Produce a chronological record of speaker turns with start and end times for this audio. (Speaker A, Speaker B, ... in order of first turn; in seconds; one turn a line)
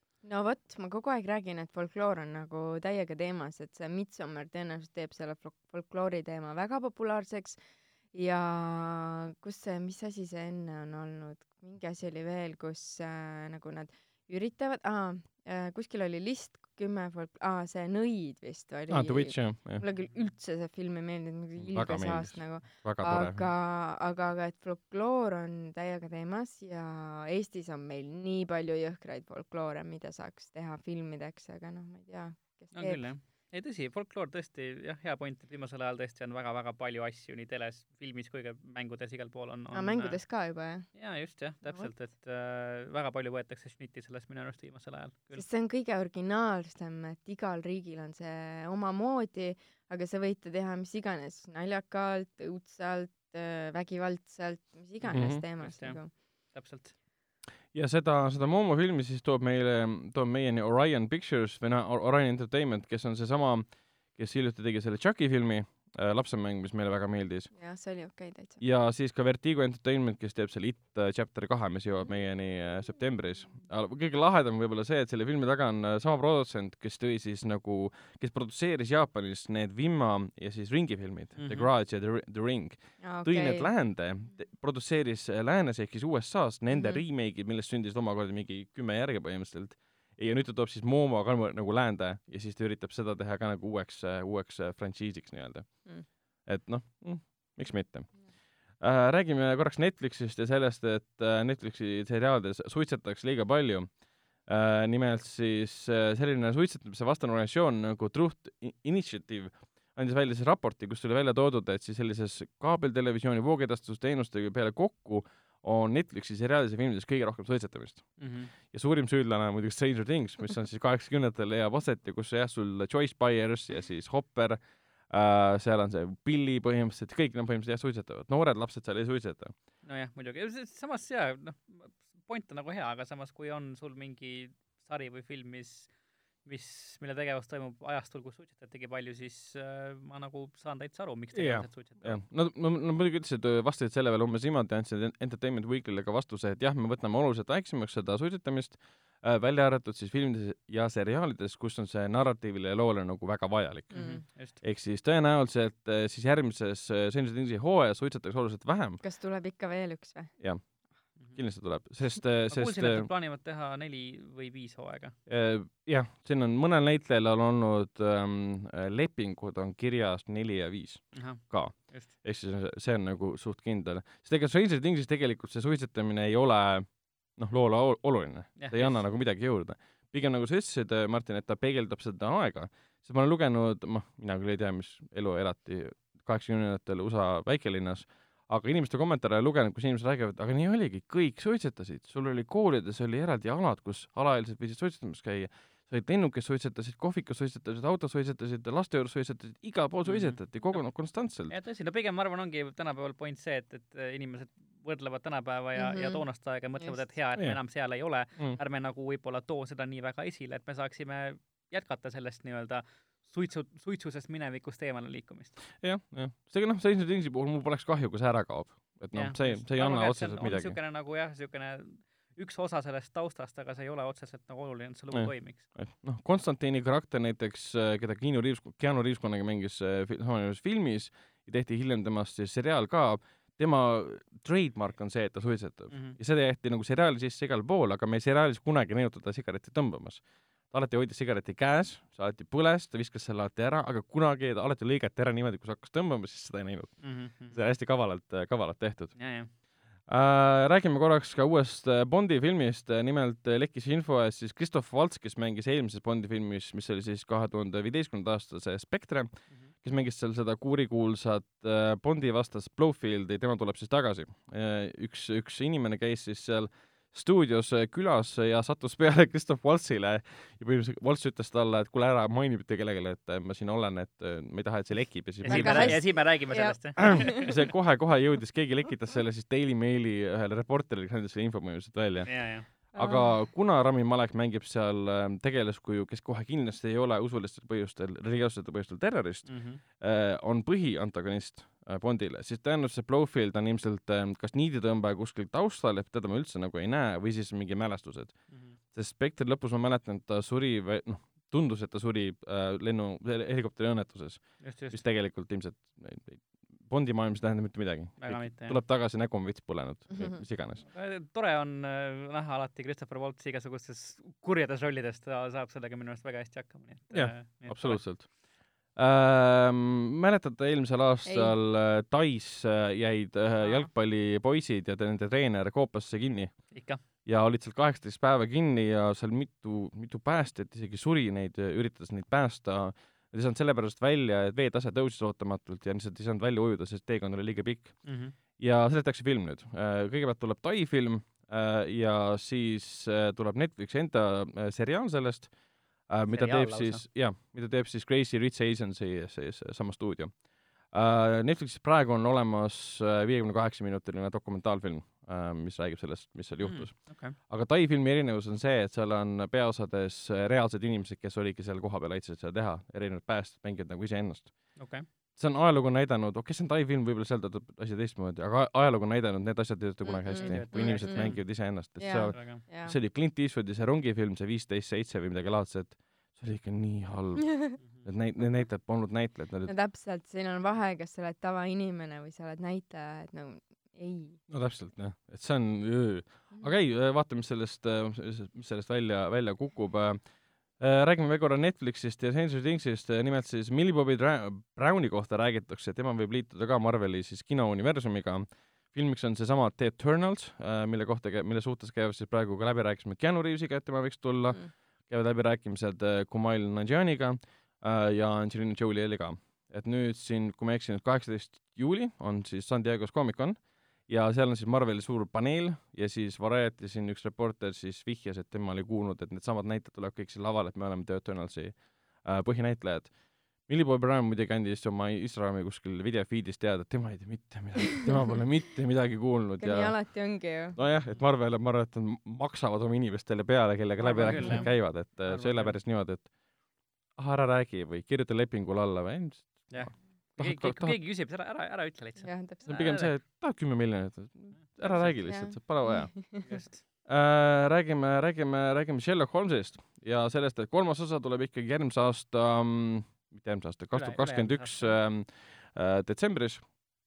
Speaker A: 0.2-7.6
Speaker A: 8.1-33.0
Speaker B: 18.9-19.9
Speaker B: 21.6-23.5
Speaker C: 32.7-40.3
Speaker A: 39.7-41.0
Speaker C: 40.9-45.4
Speaker A: 41.6-41.9
Speaker A: 45.3-56.1
Speaker C: 55.0-56.9
Speaker B: 55.1-55.4
Speaker B: 57.7-67.5
Speaker A: 67.5-68.6
Speaker B: 68.6-129.6
Speaker C: 81.4-81.7
Speaker A: 83.0-83.7
Speaker A: 86.7-87.0
Speaker C: 118.2-118.5
Speaker C: 129.8-135.9
Speaker C: 136.4-142.2
Speaker B: 141.3-159.0
Speaker C: 153.9-154.6
Speaker A: 153.9-154.2
Speaker A: 159.0-160.3
Speaker B: 161.2-163.1
Speaker C: 162.5-165.2
Speaker B: 165.3-201.6
Speaker C: 171.1-172.1
Speaker C: 178.6-179.0
Speaker C: 200.1-200.8
Speaker C: 201.5-215.6
Speaker A: 205.8-206.2
Speaker B: 215.8-220.8
Speaker C: 219.1-225.7
Speaker B: 225.1-249.2
Speaker C: 235.9-236.2
Speaker C: 247.0-247.6
Speaker C: 249.2-249.5
Speaker B: 250.1-276.2
Speaker C: 275.4-277.5
Speaker A: 275.5-277.5
Speaker B: 277.0-310.8
Speaker C: 282.3-282.7
Speaker A: 282.9-283.4
Speaker C: 289.5-289.8
Speaker C: 298.5-298.8
Speaker C: 304.6-305.0
Speaker C: 308.2-308.8
Speaker A: 310.1-310.4
Speaker C: 310.9-318.1
Speaker B: 317.1-345.5
Speaker A: 321.2-321.5
Speaker C: 323.6-323.9
Speaker C: 326.7-327.0
Speaker C: 338.0-338.4
Speaker B: 346.1-379.7
Speaker C: 346.3-347.1
Speaker C: 356.6-357.4
Speaker C: 364.8-365.1
Speaker A: 370.0-373.0
Speaker C: 370.3-371.5
Speaker C: 372.3-372.6
Speaker C: 377.8-378.1
Speaker A: 379.7-384.4
Speaker B: 384.5-390.2
Speaker B: 390.8-430.2
Speaker A: 429.6-430.8
Speaker B: 430.8-436.3
Speaker C: 434.0-435.8
Speaker A: 434.4-434.7
Speaker B: 437.2-441.0
Speaker C: 439.7-443.1
Speaker A: 442.2-442.7
Speaker B: 442.7-446.5
Speaker C: 444.5-445.3
Speaker A: 445.2-446.5
Speaker C: 446.4-446.8
Speaker B: 447.1-456.8
Speaker C: 453.9-455.0